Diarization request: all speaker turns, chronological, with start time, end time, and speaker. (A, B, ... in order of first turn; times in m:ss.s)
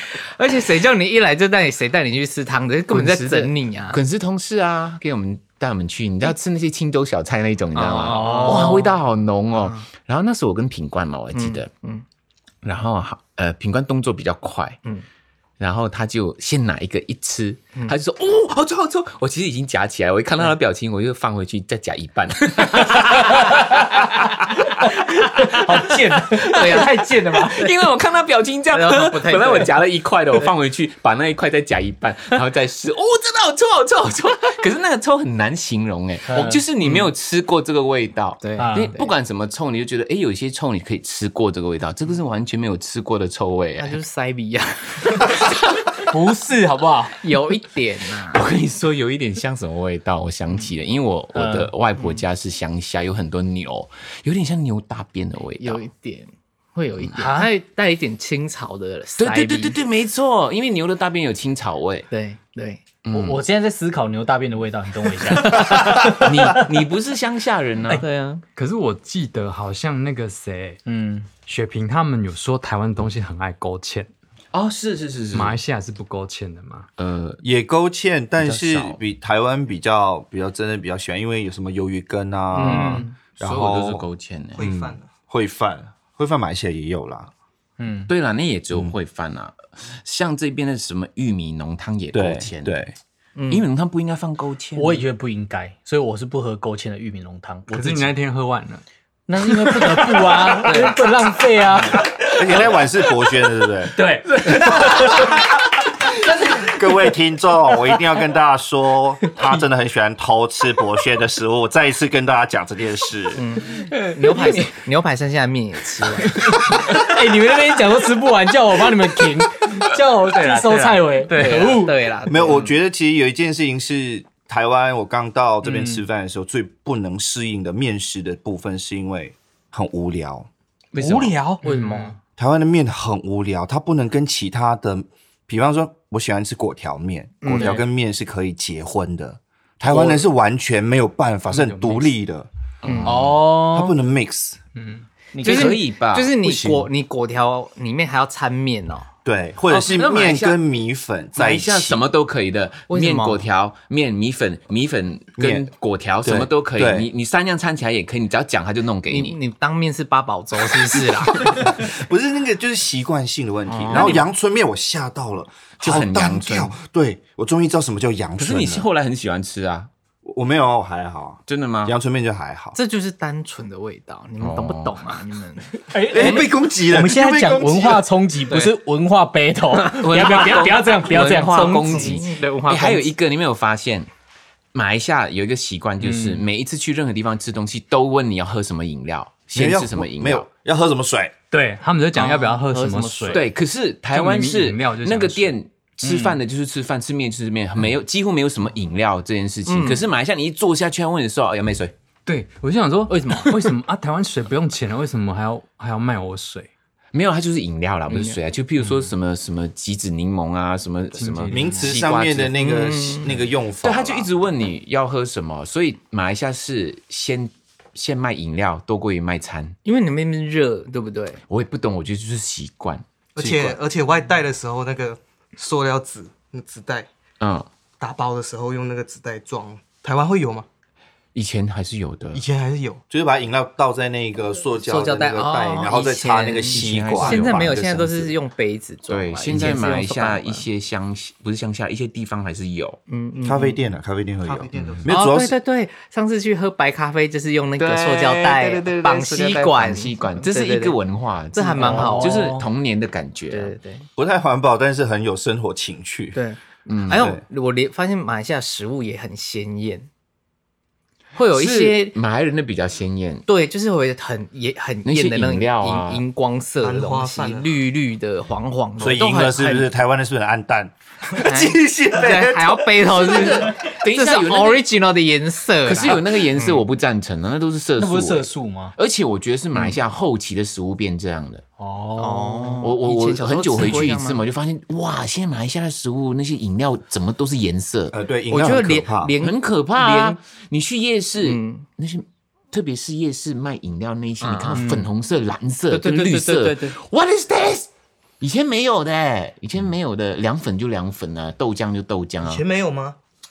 0:00.2-0:04.0 A
0:02.9-0:11.7 B
0:07.8-0:08.9 A
0:07.9-0:08.9 C
0:09.5-0:09.9 A
0:11.3-0:12.0 A
0:12.6-0:14.8 B
0:15.6-0:44.0 B
0:24.8-0:27.7 C
0:26.5-0:27.2 A
0:28.7-0:29.7 A
0:36.3-0:36.6 C
0:36.8-0:37.1 A
0:38.4-0:39.1 A
0:38.6-0:39.0 C
0:43.8-0:45.3 A
0:46.0-0:47.2 C
0:47.2-0:48.4 A
0:48.3-0:55.8 B
0:51.3-0:51.7 C
0:52.0-0:52.2 A
0:55.6-0:59.8 A
0:57.2-0:57.5 C
0:59.2-1:02.1 B
1:02.1-1:02.8 A
1:03.0-1:03.4 B
1:03.1-1:06.6 C
1:05.4-1:08.0 B
1:05.6-1:06.3 A
1:07.9-1:08.4 A
1:08.6-1:10.8 D
1:10.9-1:11.3 C
1:11.4-1:14.1 D
1:14.5-1:15.6 B
1:15.3-1:16.9 D
1:17.0-1:17.4 B
1:17.4-1:24.1 E
1:18.4-1:19.0 B
1:22.5-1:23.2 A
1:22.6-1:23.1 C
1:23.4-1:24.7 B
1:24.6-1:25.1 F
1:24.6-1:27.3 E
1:27.8-1:28.1 C
1:28.1-1:32.8 B
1:32.1-1:32.9 E
1:33.4-1:33.7 A
1:33.5-1:35.0 B
1:34.8-1:38.1 C
1:37.7-1:38.8 D
1:39.3-1:42.7 C
1:39.4-1:40.9 D
1:42.3-1:44.0 E
1:44.0-1:45.2 C
1:44.4-1:45.3 B
1:46.5-1:53.4 E
1:53.4-1:56.6 A
1:53.8-1:54.7 B
1:56.6-2:02.0 C
2:00.4-2:02.7 A
2:01.4-2:01.7 B
2:02.3-2:10.5 E
2:05.6-2:06.0 C
2:11.0-2:11.6 C
2:11.0-2:11.4 B
2:11.6-2:12.2 A
2:11.6-2:12.1 D
2:12.4-2:22.5 E
2:17.4-2:17.8 A
2:21.5-2:22.1 D
2:22.8-2:23.4 B
2:22.8-2:23.2 A
2:23.0-2:24.0 C
2:23.1-2:24.6 E
2:24.8-2:25.1 D
2:25.3-2:25.8 C
2:25.4-2:29.1 A
2:25.4-2:26.9 B
2:29.2-2:32.0 E
2:29.7-2:30.6 B
2:31.4-2:39.4 B
2:32.9-2:33.5 A
2:35.4-2:35.7 E
2:36.2-2:37.1 E
2:39.1-2:41.8 A
2:41.4-2:48.9 E
2:43.7-2:44.2 A
2:43.9-2:44.2 B
2:45.8-2:46.7 B
2:48.4-2:49.9 B
2:50.2-2:52.8 E
2:51.5-2:52.0 B
2:52.8-2:56.4 A
2:54.4-2:55.0 B
2:55.9-3:02.2 C
2:56.1-2:58.1 E
2:59.9-3:04.1 B
2:59.9-3:03.1 A
3:04.7-3:10.5 B
3:06.0-3:06.4 C
3:09.5-3:11.3 E
3:11.5-3:13.5 D
3:12.2-3:13.4 A
3:13.3-3:21.9 B
3:14.1-3:15.6 D
3:16.0-3:16.4 C
3:19.7-3:20.0 A
3:22.3-3:26.7 D
3:23.1-3:23.7 A
3:27.1-3:32.6 B
3:28.1-3:28.4 A
3:28.8-3:29.1 D
3:31.2-3:31.9 D
3:31.5-3:34.3 E
3:32.6-3:33.3 A
3:33.8-3:39.8 B
3:39.8-3:41.4 A
3:41.5-3:43.7 B
3:43.4-3:47.1 F
3:47.4-3:47.7 B
3:48.0-3:50.7 F
3:51.3-3:52.4 B
3:52.3-3:53.0 F
3:53.1-3:58.3 E
3:54.8-4:00.7 A
3:56.7-3:57.9 B
3:59.1-4:03.0 B
4:03.1-4:03.8 A
4:03.4-4:05.6 E
4:04.4-4:05.1 F
4:04.8-4:05.0 B
4:05.1-4:11.0 A
4:07.8-4:13.8 B
4:11.5-4:12.5 A
4:11.8-4:12.7 C
4:13.5-4:14.1 A
4:14.2-4:16.4 E
4:16.3-4:20.1 A
4:16.9-4:17.3 B
4:17.1-4:17.4 E
4:21.4-4:22.2 A
4:21.5-4:23.5 B
4:23.5-4:29.9 A
4:25.0-4:26.2 B
4:26.8-4:27.8 F
4:29.0-4:33.6 E
4:31.3-4:36.8 A
4:33.3-4:34.9 B
4:35.8-4:41.6 B
4:38.0-4:39.0 C
4:41.8-4:42.9 C
4:42.2-4:44.4 A
4:42.8-4:48.2 B
4:48.1-4:49.3 E
4:48.5-4:50.4 A
4:49.4-4:57.9 B
4:51.4-4:51.9 A
4:54.4-4:54.9 A
4:54.7-4:55.1 C
4:55.9-4:57.0 A
4:58.4-5:02.6 B
5:02.4-5:03.2 F